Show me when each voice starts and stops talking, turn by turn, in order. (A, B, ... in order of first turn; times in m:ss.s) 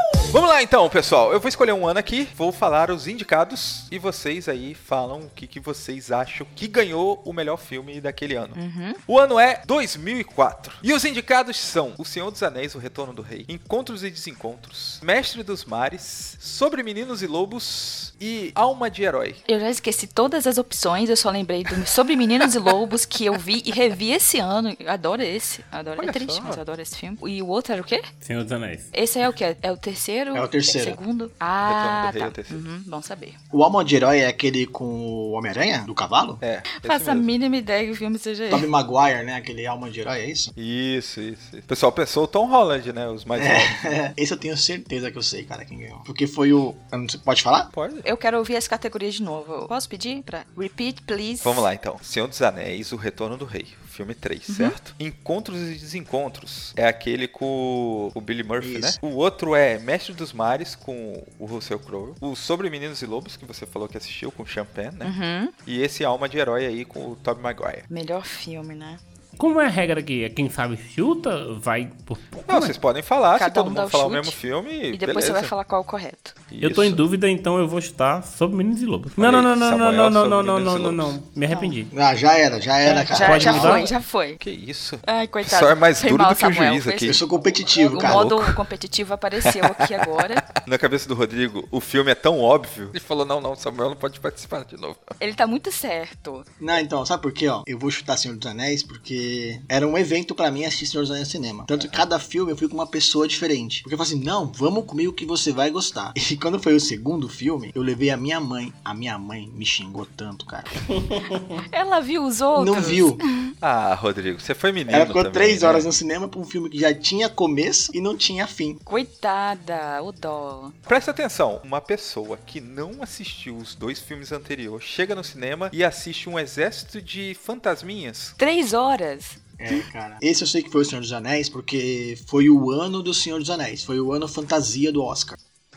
0:00.3-0:19.4 A
0:08.5-0:09.0 B
0:19.5-0:28.0 B
0:26.0-0:26.6 A
0:28.2-0:28.9 C
0:28.9-0:33.4 B
0:30.3-0:31.0 D
0:31.6-0:32.6 A
0:33.5-0:36.4 D
0:36.4-0:37.3 A
0:36.7-0:38.7 B
0:38.5-0:40.5 D
0:40.6-0:43.8 A
0:43.4-0:47.7 D
0:47.7-0:48.0 A
0:48.0-0:51.6 B
0:51.4-1:05.1 A
0:54.5-0:54.8 B
0:58.6-0:59.0 D
1:05.0-1:05.5 B
1:05.6-1:07.8 A
1:07.9-1:09.0 B
1:09.4-1:12.8 C
1:12.5-1:15.5 A
1:13.4-1:14.4 B
1:14.9-1:16.3 B
1:16.5-1:17.0 A
1:16.6-1:21.9 C
1:19.2-1:21.2 A
1:21.5-1:21.8 B
1:21.9-1:23.8 D
1:22.8-1:23.8 C
1:23.1-1:24.4 B
1:23.5-1:23.8 A
1:24.4-1:27.2 A
1:25.0-1:27.2 B
1:27.0-1:28.4 D
1:27.8-1:30.4 B
1:28.0-1:28.5 A
1:30.4-1:35.1 A
1:35.2-1:36.4 B
1:36.6-1:50.8 D
1:51.1-1:51.6 C
1:51.7-1:53.5 B
1:52.5-1:53.2 D
1:53.6-1:55.9 A
1:54.9-1:58.8 D
1:58.9-2:00.7 B
2:00.9-2:08.3 A
2:08.4-2:09.8 B
2:09.6-2:15.4 D